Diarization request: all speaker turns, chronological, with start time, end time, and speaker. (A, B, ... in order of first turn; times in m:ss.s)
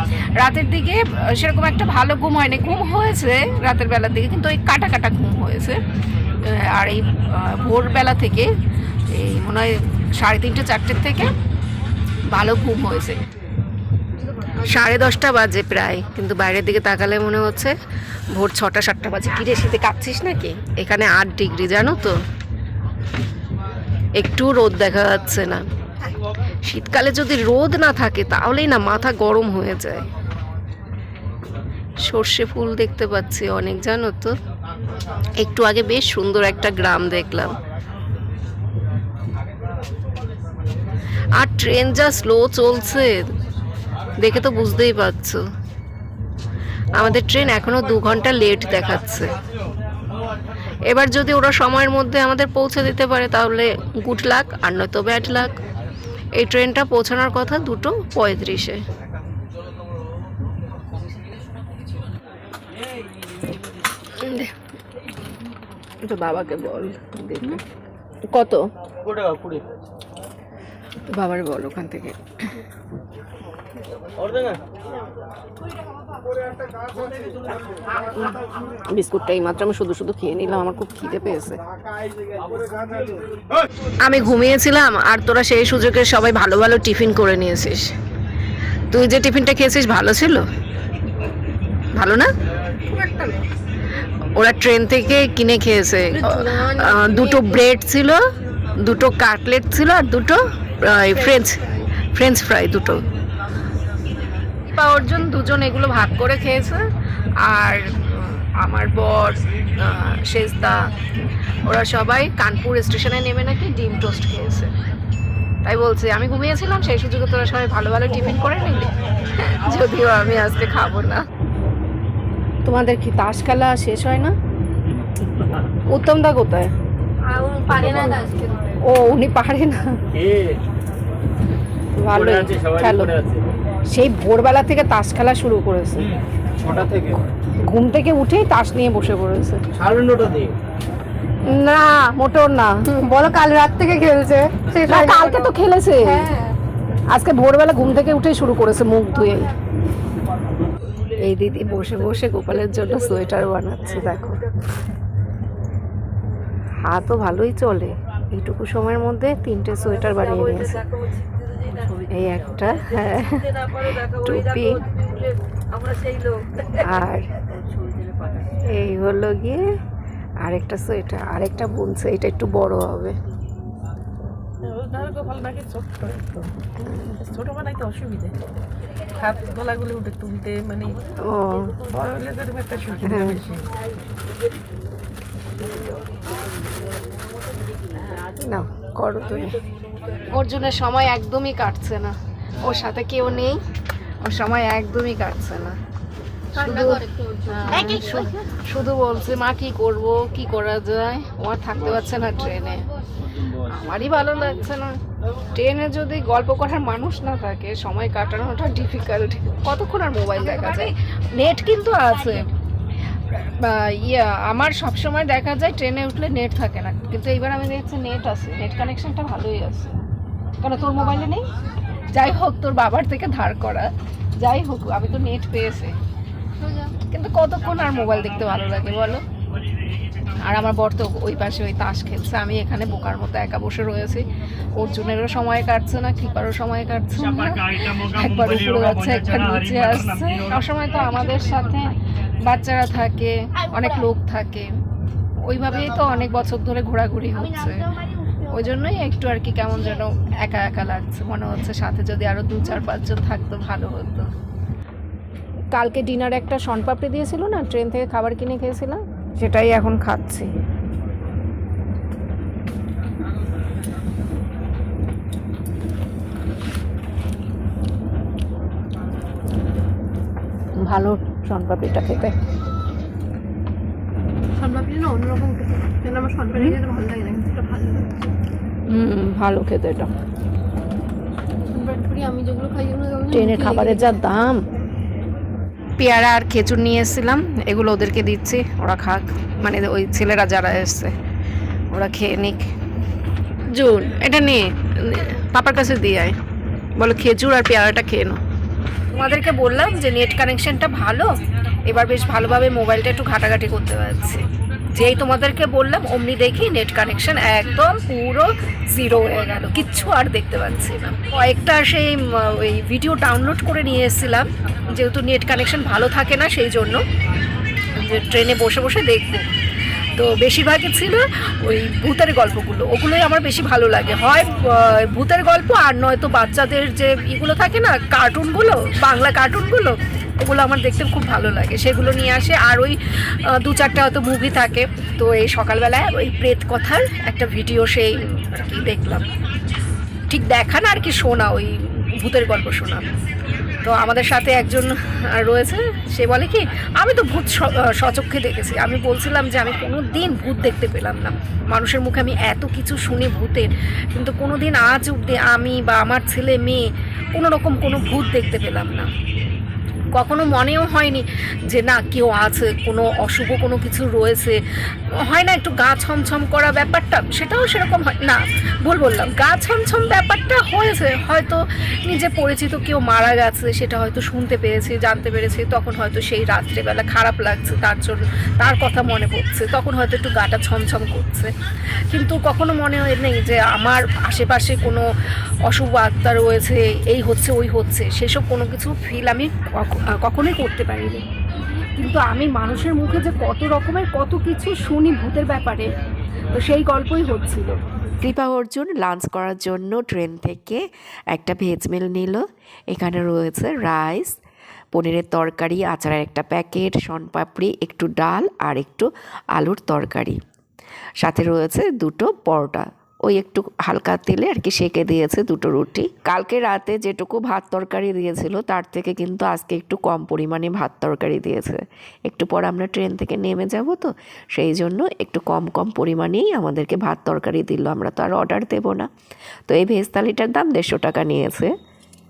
0:00.4-0:05.8 A
0:06.4-0:08.5 A
0:09.1-0:11.3 A
0:12.3-0:13.2 A
0:14.6-0:17.7 A
0:18.3-0:22.1 A
0:24.2-0:25.6 A
0:26.6-0:30.0 A
0:32.0-0:34.3 A
0:35.3-0:37.6 A
0:41.3-0:43.3 A
0:44.2-0:45.4 A
0:46.9-0:49.3 A
0:50.8-0:55.5 A
0:56.4-0:58.8 A
1:04.1-1:04.5 A
1:06.0-1:07.6 A
1:08.3-1:08.6 A
1:11.1-1:12.2 A
1:18.0-1:21.6 A
1:24.0-1:27.9 A
1:28.9-1:30.5 A
1:31.9-1:32.3 A
1:32.9-1:33.3 A
1:34.3-1:38.2 A
1:38.8-1:43.0 A
1:44.7-1:46.8 A
1:47.4-1:50.8 A
1:51.6-1:54.7 A
1:55.6-2:01.2 A
2:02.6-2:04.4 A
2:05.9-2:06.7 A
2:07.3-2:07.6 B
2:07.6-2:08.3 A
2:08.3-2:08.7 B
2:08.8-2:09.9 A
2:12.0-2:13.2 A
2:12.3-2:13.3 B
2:13.9-2:16.1 A
2:17.6-2:19.6 A
2:19.9-2:20.5 B
2:21.5-2:26.3 A
2:27.1-2:29.5 A
2:31.2-2:34.4 A
2:36.8-2:40.8 A
2:42.0-2:44.8 A
2:46.6-2:47.3 A
2:48.6-2:49.6 A
2:50.4-2:53.2 A
2:54.6-2:58.4 C
2:59.1-3:01.1 C
3:01.2-3:01.8 A
3:01.8-3:03.6 C
3:03.0-3:03.4 A
3:08.4-3:09.6 A
3:10.3-3:13.6 A
3:14.2-3:15.8 A
3:16.5-3:22.8 A
3:16.7-3:18.2 B
3:23.5-3:25.0 A
3:25.5-3:32.5 A
3:33.3-3:39.9 A
3:40.6-3:41.5 A
3:42.1-3:45.9 A
3:47.0-3:49.2 A
3:50.4-4:04.7 A
4:05.4-4:07.9 A
4:08.4-4:14.3 A
4:15.7-4:20.5 A
4:30.8-4:32.3 A
4:34.6-4:38.1 D
4:38.9-4:40.1 A
4:41.7-4:43.9 D
4:43.3-4:44.6 A
4:46.0-4:51.1 A
4:51.9-4:52.7 A
4:53.7-4:56.4 A
4:57.0-4:58.4 A
4:59.1-5:01.3 A
5:01.8-5:17.0 A
5:17.9-5:19.4 A
5:20.1-5:39.2 A
5:40.3-5:43.0 A
5:43.8-5:59.1 A
6:00.1-6:04.6 A
6:05.2-6:21.5 A
6:22.1-6:25.0 A
6:25.6-6:31.2 A
6:32.0-6:35.9 A
6:36.5-6:37.7 A
6:38.2-6:44.4 E
6:44.9-6:50.4 E
6:51.2-7:09.1 E
7:09.7-7:11.7 E